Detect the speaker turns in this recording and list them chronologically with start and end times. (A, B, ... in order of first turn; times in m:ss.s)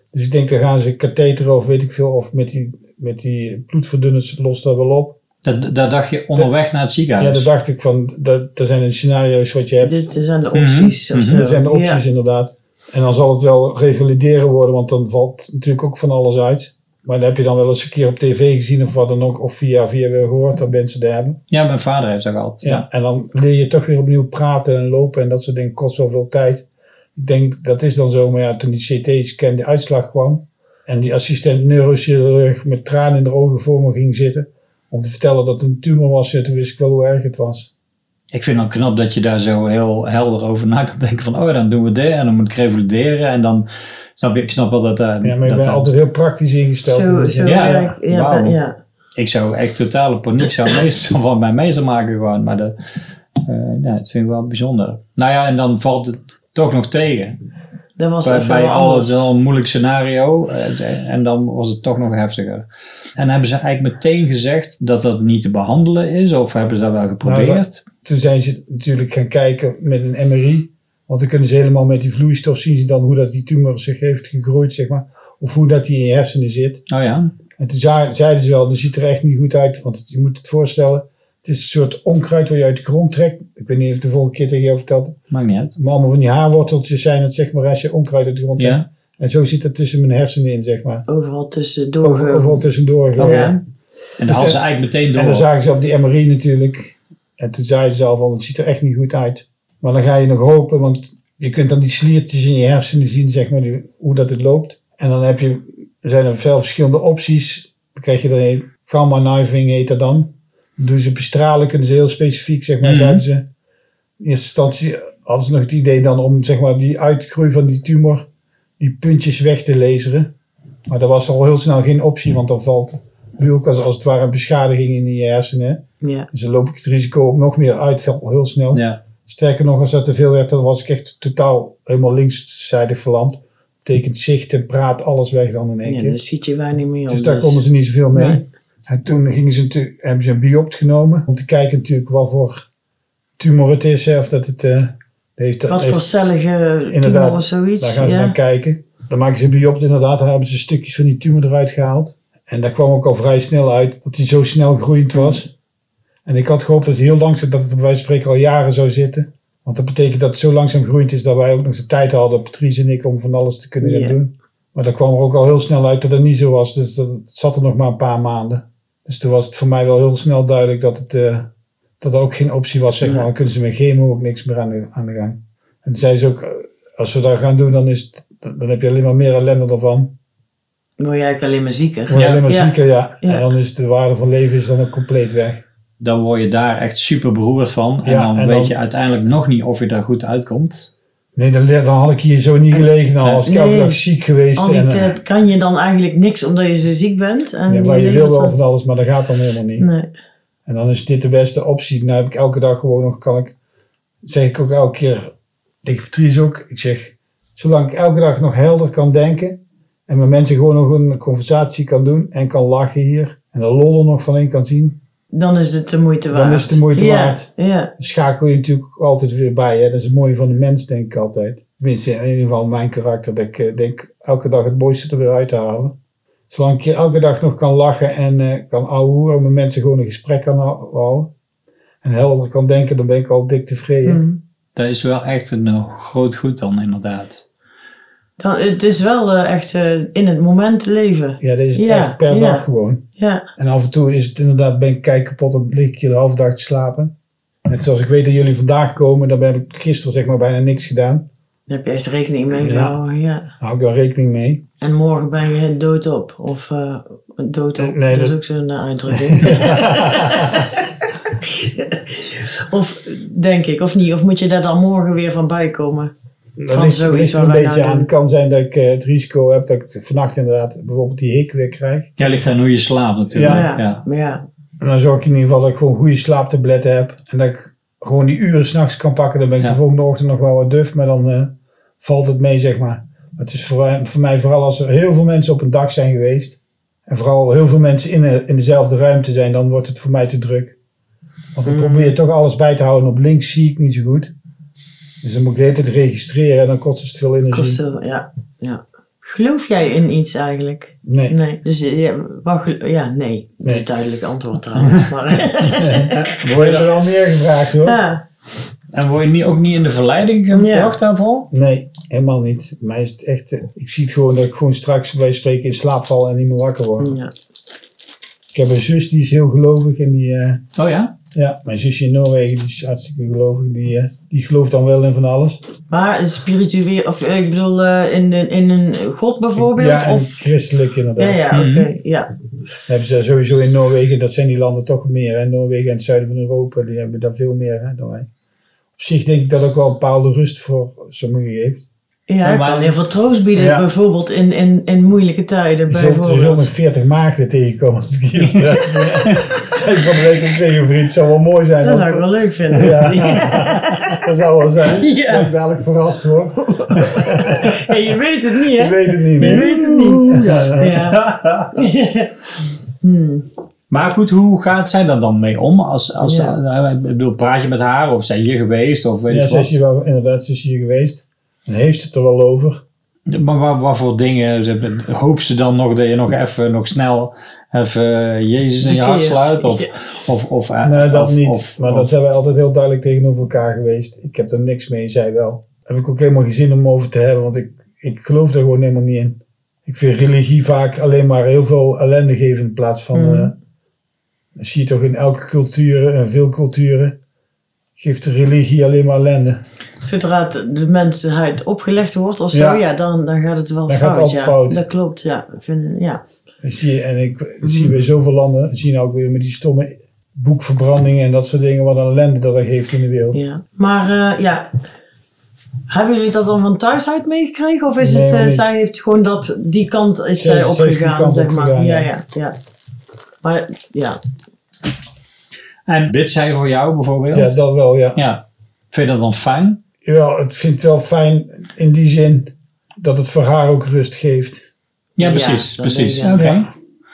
0:00.1-0:05.1 A
0:05.4-0:07.5 B
0:07.2-0:10.0 A
0:09.8-0:12.0 C
0:10.5-0:11.4 B
0:11.3-0:21.4 A
0:21.5-0:22.8 B
0:22.6-0:37.7 A
0:38.3-0:43.6 B
0:44.2-0:45.9 B
0:45.2-0:47.8 A
0:46.8-0:48.7 C
0:47.4-0:48.6 B
0:49.2-0:52.7 B
0:53.4-0:57.4 B
0:58.0-0:59.2 C
0:58.2-1:02.6 B
1:03.2-1:07.8 B
1:07.2-1:16.9 A
1:16.9-1:17.3 B
1:17.6-1:25.2 A
1:25.3-1:25.7 B
1:25.8-1:31.0 A
1:28.6-1:28.8 B
1:31.1-1:32.6 C
1:32.0-1:33.5 A
1:33.2-1:33.6 B
1:33.2-1:33.5 C
1:34.2-1:35.4 B
1:34.3-1:34.6 A
1:35.1-1:53.4 A
1:52.8-1:53.2 B
1:54.2-1:58.2 A
1:58.8-2:00.3 A
2:00.9-2:16.2 A
2:06.0-2:06.3 C
2:08.7-2:09.0 B
2:15.8-2:17.6 C
2:17.1-2:22.6 A
2:18.1-2:18.4 C
2:23.4-2:26.0 A
2:25.7-2:28.4 C
2:26.9-2:35.5 A
2:35.1-2:35.4 C
2:36.2-2:51.5 A
2:43.8-2:44.2 C
2:52.0-3:00.1 A
2:53.0-2:53.3 C
3:01.0-3:03.4 C
3:02.1-3:05.6 A
3:02.1-3:02.4 B
3:06.0-3:10.9 B
3:08.0-3:08.7 A
3:11.4-3:15.2 A
3:13.4-3:14.0 C
3:14.6-3:18.5 C
3:17.7-3:19.9 A
3:19.8-3:20.1 C
3:20.6-3:23.5 A
3:24.2-3:25.3 A
3:25.8-3:35.0 A
3:35.3-3:37.9 C
3:36.3-3:37.4 A
3:38.0-3:45.9 A
3:46.5-3:51.3 A
3:52.0-3:54.2 A
3:54.0-3:54.4 C
3:54.8-3:57.4 B
3:58.4-4:02.6 C
4:01.4-4:03.0 A
4:03.2-4:03.4 C
4:03.6-4:07.1 A
4:07.7-4:11.3 A
4:11.7-4:13.5 C
4:12.6-4:13.0 A
4:13.6-4:14.6 A
4:14.8-4:26.1 C
4:17.8-4:18.4 A
4:19.1-4:20.7 A
4:26.6-4:32.4 A
4:26.7-4:28.1 C
4:32.2-4:34.0 B
4:33.3-4:33.7 A
4:33.4-4:34.4 C
4:34.8-4:50.7 A
4:51.5-4:54.3 A
4:51.6-4:52.2 C
4:55.2-4:57.8 A
4:57.5-5:06.2 C
5:01.0-5:01.4 A
5:04.9-5:06.9 B
5:05.9-5:08.0 A
5:07.8-5:08.2 C
5:08.9-5:11.5 B
5:10.5-5:11.0 C
5:11.5-5:17.2 A
5:17.0-5:17.3 C
5:18.5-5:20.6 A
5:20.8-5:21.1 B
5:21.3-5:25.6 A
5:25.9-5:30.4 C
5:29.6-5:31.5 A
5:31.2-5:32.3 C
5:31.5-5:31.9 B
5:32.9-5:38.3 A
5:39.0-5:41.8 A
5:42.3-5:46.7 C
5:42.4-5:43.0 B
5:43.6-5:43.8 A
5:45.9-5:57.8 A
5:48.4-5:49.4 B
5:51.8-5:54.3 C
5:54.9-5:55.5 C
5:56.6-6:02.3 C
5:58.7-6:01.0 A
6:00.2-6:01.8 B
6:03.0-6:03.5 C
6:03.9-6:09.7 B
6:06.2-6:06.6 C
6:09.3-6:12.8 A
6:13.3-6:22.1 B
6:18.8-6:19.9 C
6:20.8-6:33.5 A
6:33.1-6:33.5 C
6:34.6-6:37.2 A
6:38.0-6:39.6 A
6:40.0-6:46.2 C
6:42.5-6:42.8 A
6:43.9-6:44.8 A
6:46.6-6:53.4 A
6:47.6-6:48.0 C
6:53.3-6:54.7 C
6:55.9-7:02.5 C
6:58.0-6:58.6 A
7:00.4-7:02.1 A
7:03.4-7:04.2 C
7:05.9-7:07.6 B
7:07.3-7:08.2 A
7:08.1-7:09.8 B
7:10.0-7:14.7 A
7:15.2-7:16.7 B
7:15.2-7:16.5 C
7:16.3-7:16.7 A